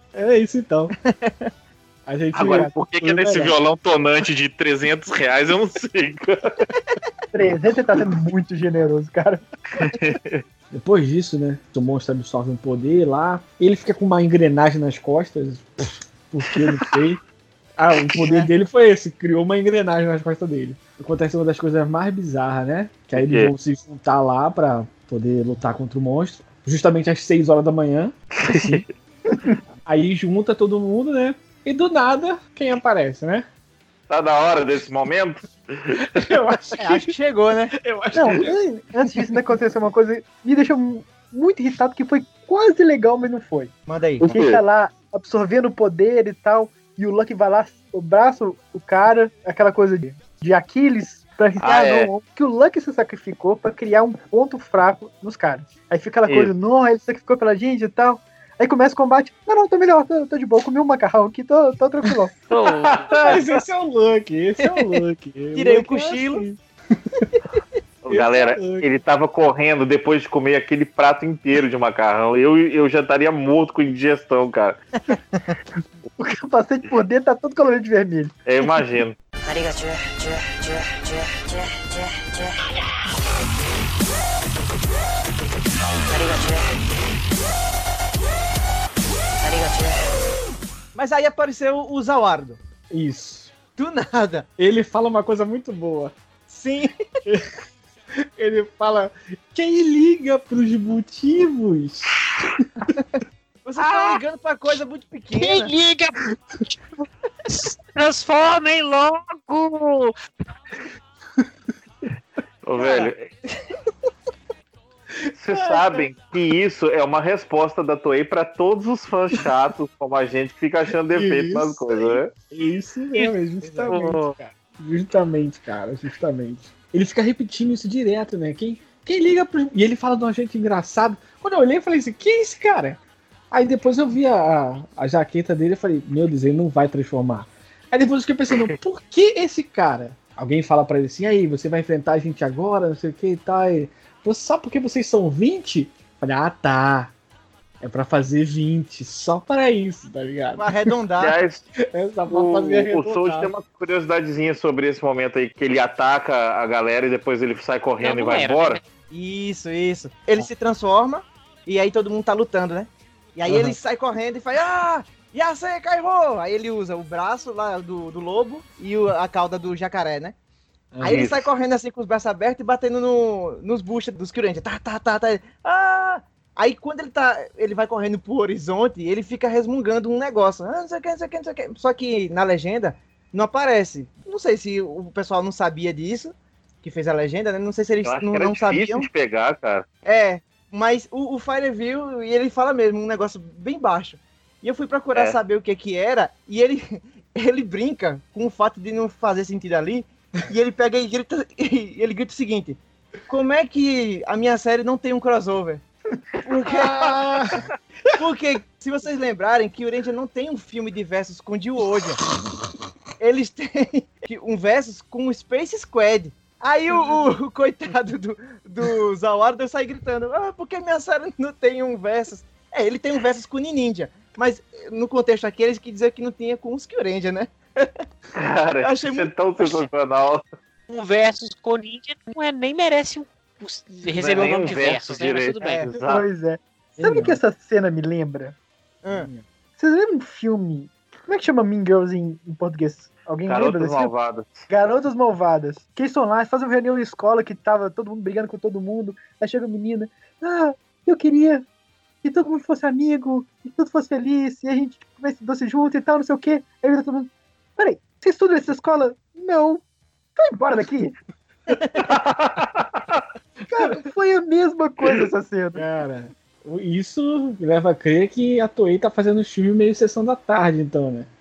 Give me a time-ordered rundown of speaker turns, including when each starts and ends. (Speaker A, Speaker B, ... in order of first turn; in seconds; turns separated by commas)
Speaker A: 0.1-0.9, Speaker A: 2.0-3.5, Speaker B: 2.3-6.5, Speaker C: 2.4-2.7, Speaker C: 7.3-9.4, Speaker B: 9.8-10.4, Speaker A: 10.7-17.2, Speaker B: 16.5-16.9, Speaker A: 17.8-28.8, Speaker B: 23.1-23.5, Speaker B: 28.4-28.9, Speaker A: 29.8-33.5, Speaker B: 34.1-36.3, Speaker A: 36.0-37.1, Speaker D: 36.8-37.7, Speaker A: 37.8-38.5, Speaker C: 38.1-43.7, Speaker D: 43.9-44.3, Speaker B: 44.2-44.6, Speaker C: 44.2-62.3, Speaker B: 51.6-52.1, Speaker E: 62.5-63.1, Speaker B: 62.9-63.3, Speaker A: 63.2-67.3, Speaker D: 64.6-65.0, Speaker D: 65.5-66.4, Speaker B: 68.0-74.8, Speaker A: 68.1-68.9, Speaker D: 75.1-75.5, Speaker C: 76.2-78.3, Speaker B: 78.5-79.2, Speaker D: 90.9-92.6, Speaker A: 92.9-93.5, Speaker D: 93.8-94.5, Speaker A: 94.6-96.1, Speaker D: 96.5-96.9, Speaker A: 97.2-97.6, Speaker A: 98.2-102.8, Speaker D: 103.6-105.7, Speaker E: 103.8-104.2, Speaker E: 105.3-106.8, Speaker E: 107.5-110.1, Speaker B: 112.6-113.3, Speaker D: 112.8-113.7, Speaker B: 115.4-122.3, Speaker A: 115.5-116.1, Speaker A: 121.1-133.0, Speaker B: 123.9-124.3, Speaker A: 133.5-147.1, Speaker A: 147.8-150.7, Speaker D: 150.6-151.3, Speaker B: 151.2-151.6, Speaker A: 151.9-153.5, Speaker B: 152.3-158.8, Speaker E: 158.0-158.8, Speaker D: 159.1-170.3, Speaker A: 163.4-163.8, Speaker A: 170.9-171.3, Speaker D: 171.0-189.1, Speaker B: 171.1-171.3, Speaker B: 188.0-189.8, Speaker D: 190.0-205.8, Speaker D: 206.4-207.2, Speaker A: 206.6-207.6, Speaker D: 208.2-212.2, Speaker D: 213.2-228.0, Speaker B: 228.3-230.4, Speaker D: 228.8-229.3, Speaker E: 230.9-235.9, Speaker B: 234.1-236.3, Speaker D: 235.6-235.9, Speaker C: 236.0-238.6, Speaker A: 237.0-237.4, Speaker D: 239.0-239.3, Speaker A: 239.1-239.4, Speaker C: 239.8-244.1, Speaker B: 243.4-244.7, Speaker C: 244.7-251.6, Speaker C: 252.2-259.8, Speaker C: 260.4-261.1, Speaker D: 261.7-262.0, Speaker B: 262.1-263.2, Speaker C: 263.7-265.9, Speaker A: 265.8-271.3